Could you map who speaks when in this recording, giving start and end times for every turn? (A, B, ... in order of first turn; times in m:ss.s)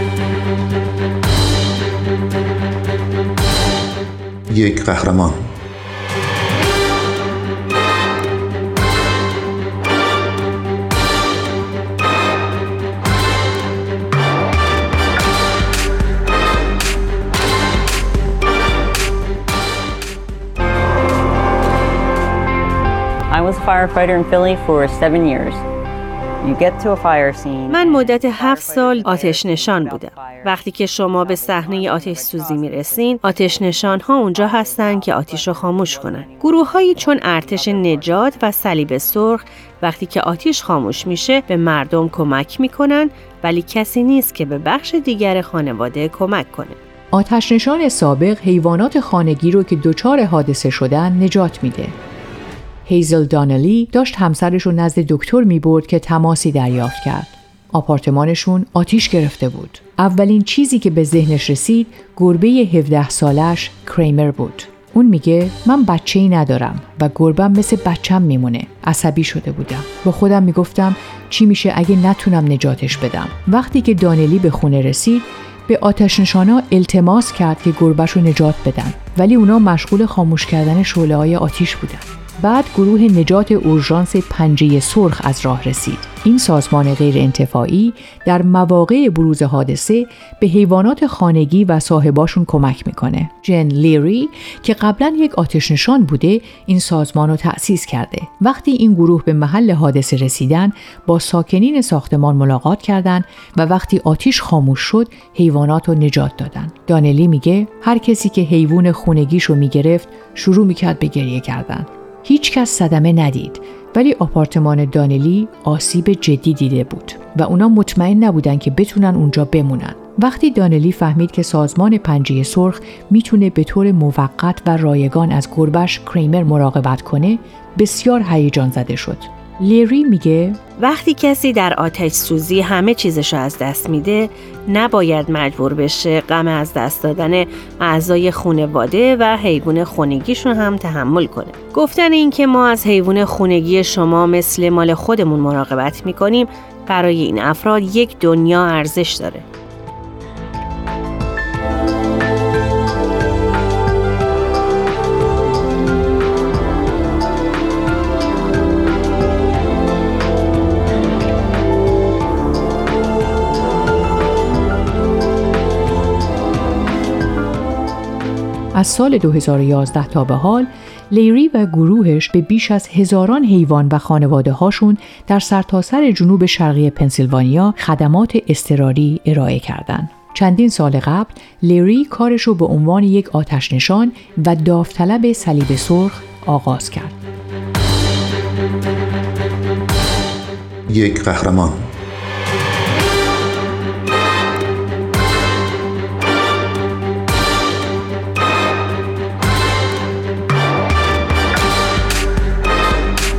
0:04.5-0:05.5 A
0:23.3-0:25.6 B
0:26.4-0:30.5 B
0:27.7-0:46.8 C
0:31.1-0:38.3 B
0:47.1-0:52.0 D
0:52.8-2:10.6 D
2:10.8-2:29.4 C
2:48.7-3:07.2 D
3:10.9-3:11.9 A